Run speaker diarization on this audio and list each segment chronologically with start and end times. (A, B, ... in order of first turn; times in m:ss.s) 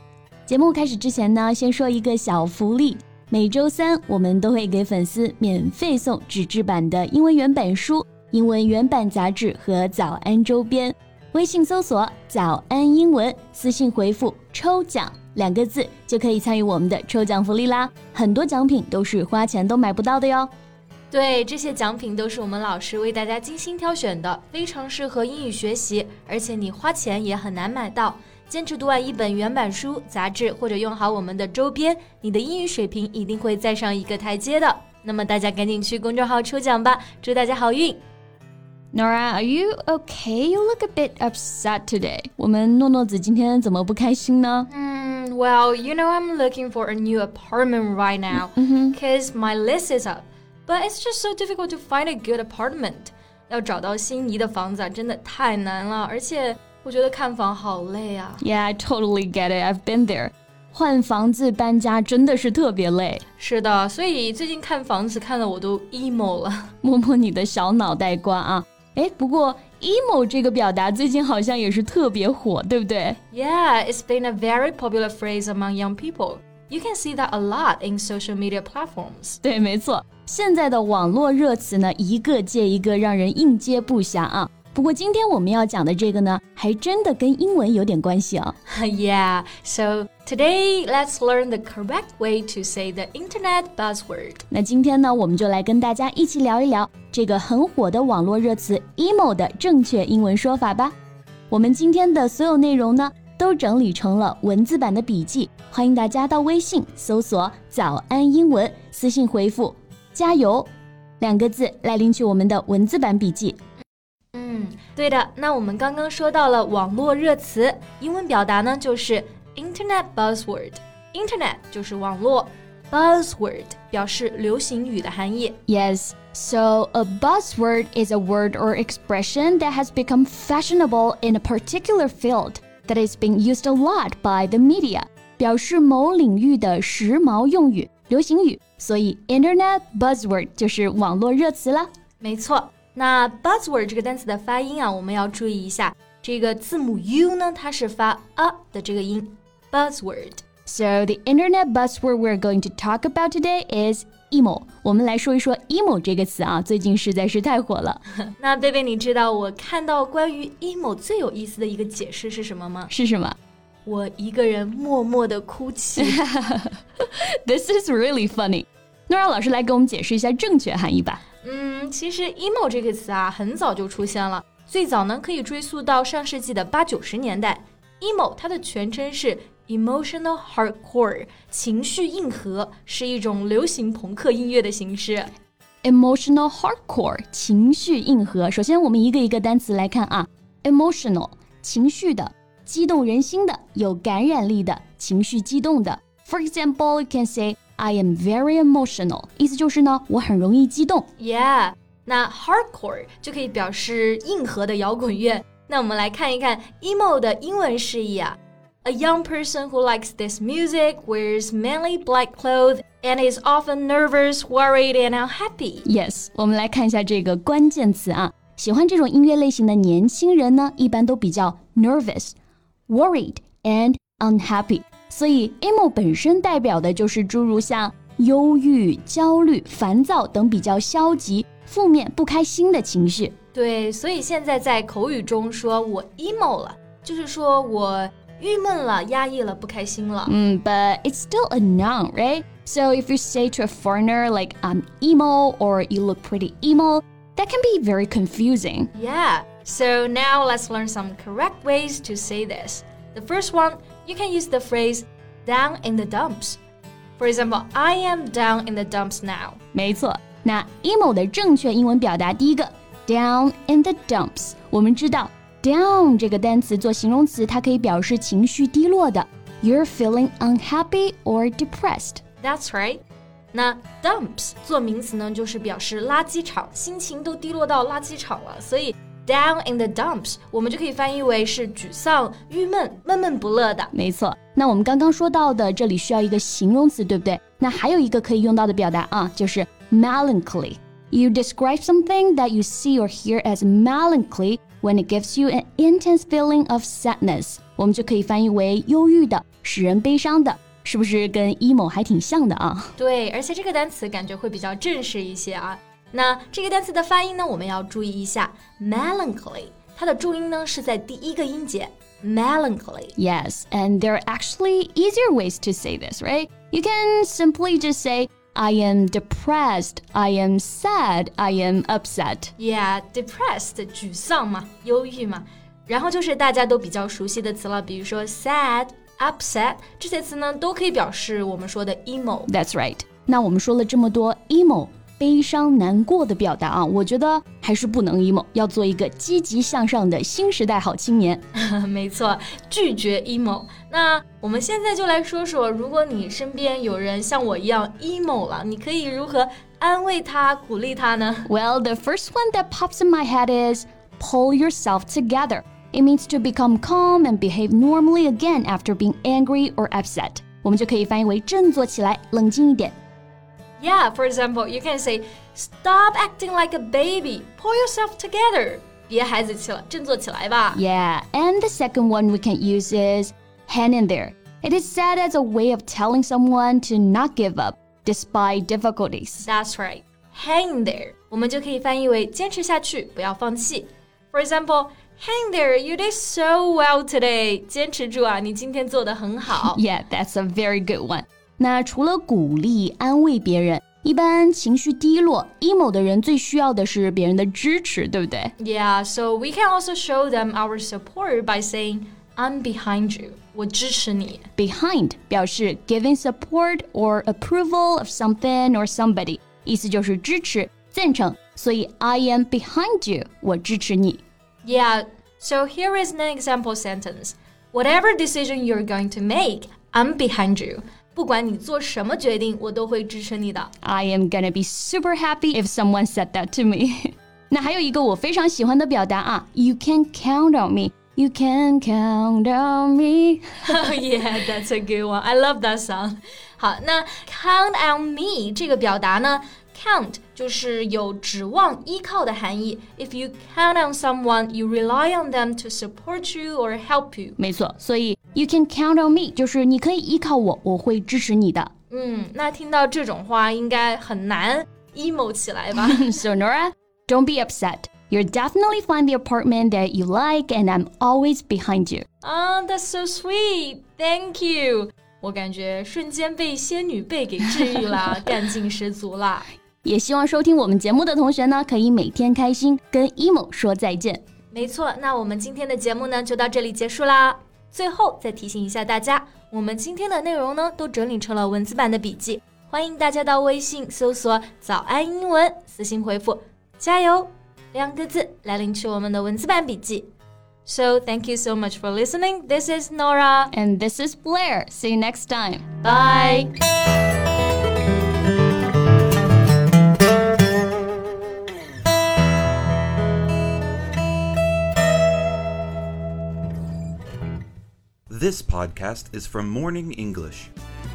0:00.5-0:20.5 A
0:21.1-0:38.0 B
0:38.9-0:44.7 A
0:44.7-0:58.4 B
0:48.3-0:49.0 A
0:58.4-1:03.2 A
1:03.4-1:06.7 B
1:06.8-1:13.2 A
1:13.3-1:19.4 B
1:19.4-1:28.6 A
1:28.7-1:34.4 B
1:34.5-1:40.9 A
1:41.5-1:50.7 A
1:51.2-1:53.6 A
1:54.3-2:05.6 B
2:05.7-2:21.9 A
2:22.2-2:30.4 B
2:30.6-2:38.0 A
2:38.2-2:42.9 B
2:42.9-2:43.4 A
2:43.8-2:46.2 B
2:46.0-2:51.2 A
2:51.4-3:05.3 B
3:05.8-3:21.1 A
3:21.2-3:35.8 B
3:35.8-3:42.4 A
3:42.9-3:53.3 A
3:53.5-4:00.3 B
4:00.2-4:08.9 A
4:08.9-4:16.6 B
4:17.2-4:19.6 B
4:19.7-4:32.2 A
4:32.4-4:33.0 B
4:33.5-4:43.9 B
4:43.9-5:02.9 A
5:03.0-5:13.1 B
5:13.2-5:22.5 A
5:22.6-5:32.5 B
5:32.5-5:41.4 A
5:41.5-5:51.5 B
5:51.4-6:03.0 A
6:03.8-6:10.8 B
6:10.7-6:19.5 A
6:19.4-6:29.8 B
6:29.5-6:38.5 A
6:38.6-6:44.5 B
6:44.6-6:54.2 A
6:54.6-7:03.7 B
7:03.8-7:13.8 A
7:13.6-7:27.4 B
7:27.4-7:31.7 A
7:31.9-7:36.1 B
7:35.8-7:42.0 A
7:42.2-7:49.5 B
7:49.8-7:54.2 A
7:54.5-8:10.1 B
8:10.6-8:13.5 B
8:13.5-8:15.7 A
8:15.8-8:16.5 B
8:28.1-8:30.5 C